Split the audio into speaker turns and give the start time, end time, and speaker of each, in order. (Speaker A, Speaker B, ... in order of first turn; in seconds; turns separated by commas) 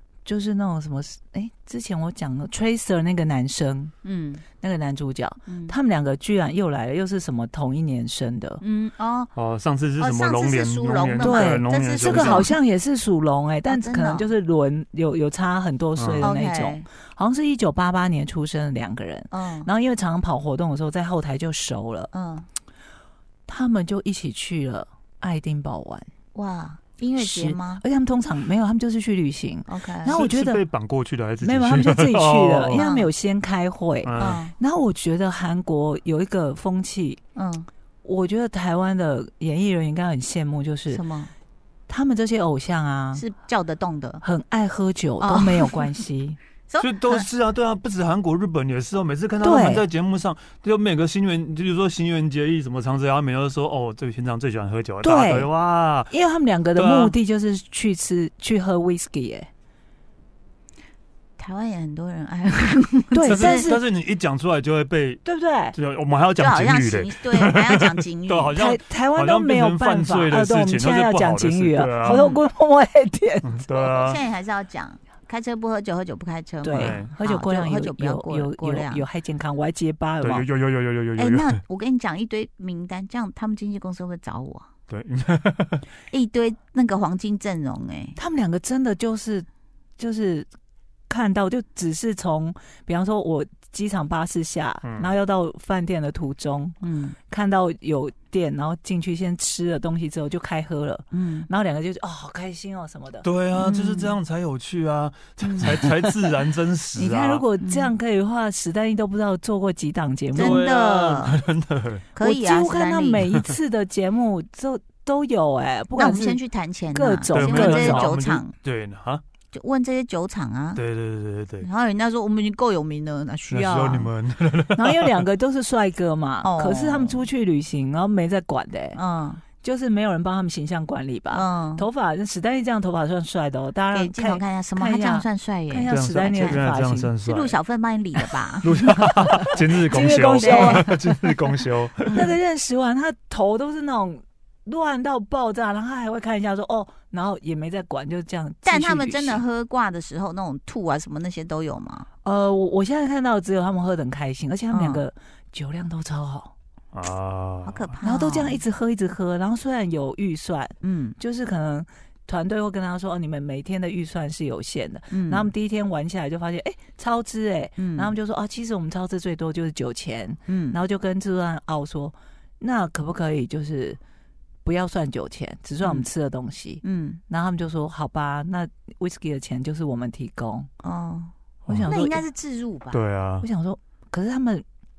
Speaker A: 0.2-3.9, Speaker B: 4.0-4.5, Speaker A: 4.6-8.6, Speaker B: 5.5-5.8, Speaker B: 8.6-9.3, Speaker C: 9.3-12.5, Speaker B: 10.0-12.5, Speaker A: 11.2-22.1, Speaker B: 13.7-14.3, Speaker C: 16.0-16.3, Speaker B: 16.2-16.9, Speaker B: 19.3-19.7, Speaker B: 22.1-22.5, Speaker A: 23.5-26.1, Speaker B: 26.3-27.8, Speaker A: 27.2-30.6, Speaker B: 29.6-30.2, Speaker C: 30.0-32.9, Speaker A: 31.4-37.2, Speaker B: 32.7-33.1, Speaker C: 34.0-34.4, Speaker B: 34.2-34.5, Speaker B: 37.3-37.7, Speaker A: 38.0-41.0, Speaker B: 40.9-41.3, Speaker A: 41.9-43.2, Speaker B: 43.1-44.2, Speaker A: 44.2-46.4, Speaker B: 45.2-46.0, Speaker B: 46.7-47.3, Speaker C: 46.8-56.1, Speaker A: 49.4-49.9, Speaker A: 55.0-55.5, Speaker A: 56.1-59.5, Speaker C: 56.7-57.1, Speaker B: 61.4-63.6, Speaker A: 63.1-63.8, Speaker C: 63.3-72.2, Speaker A: 65.2-65.7, Speaker B: 66.4-68.6, Speaker A: 68.6-73.6, Speaker B: 72.0-72.4, Speaker C: 73.4-74.2, Speaker B: 73.8-79.1, Speaker A: 76.6-80.5, Speaker C: 76.8-77.1, Speaker C: 80.2-81.6, Speaker B: 81.2-84.7, Speaker C: 84.9-85.8, Speaker B: 86.1-88.2, Speaker A: 88.2-89.5, Speaker A: 90.0-90.5, Speaker A: 91.1-96.8, Speaker C: 94.8-95.1, Speaker B: 96.8-97.2, Speaker A: 97.3-103.3, Speaker B: 101.1-101.5, Speaker C: 103.2-107.4, Speaker B: 103.6-104.2, Speaker B: 105.4-105.8, Speaker A: 106.9-110.6, Speaker B: 107.6-107.9, Speaker B: 110.3-111.4, Speaker C: 110.3-112.0, Speaker B: 112.1-113.3, Speaker A: 112.2-116.4, Speaker B: 115.9-118.5, Speaker A: 116.9-118.1, Speaker C: 117.3-119.2, Speaker B: 119.5-120.8, Speaker C: 120.8-121.7, Speaker B: 121.6-124.1, Speaker C: 123.5-125.2, Speaker A: 124.8-129.0, Speaker B: 126.4-127.3, Speaker B: 128.9-129.4, Speaker A: 129.6-137.1, Speaker B: 131.3-131.9, Speaker B: 133.9-136.7, Speaker C: 135.9-137.6, Speaker B: 137.2-138.7, Speaker C: 138.6-142.3, Speaker A: 139.9-140.9, Speaker B: 140.4-140.8, Speaker B: 142.1-142.4, Speaker A: 142.1-149.4, Speaker B: 148.6-152.1, Speaker A: 152.2-156.5, Speaker B: 154.7-155.0, Speaker C: 156.9-157.8, Speaker B: 157.7-158.6, Speaker A: 158.0-174.0, Speaker B: 160.8-161.2, Speaker B: 165.1-165.5, Speaker B: 167.8-168.1, Speaker B: 170.5-170.8, Speaker A: 174.6-180.7, Speaker B: 175.8-176.1, Speaker B: 176.8-177.2, Speaker B: 180.8-181.3, Speaker C: 181.7-182.1, Speaker A: 181.7-182.2, Speaker B: 181.8-183.0, Speaker C: 182.9-183.5, Speaker A: 183.4-184.6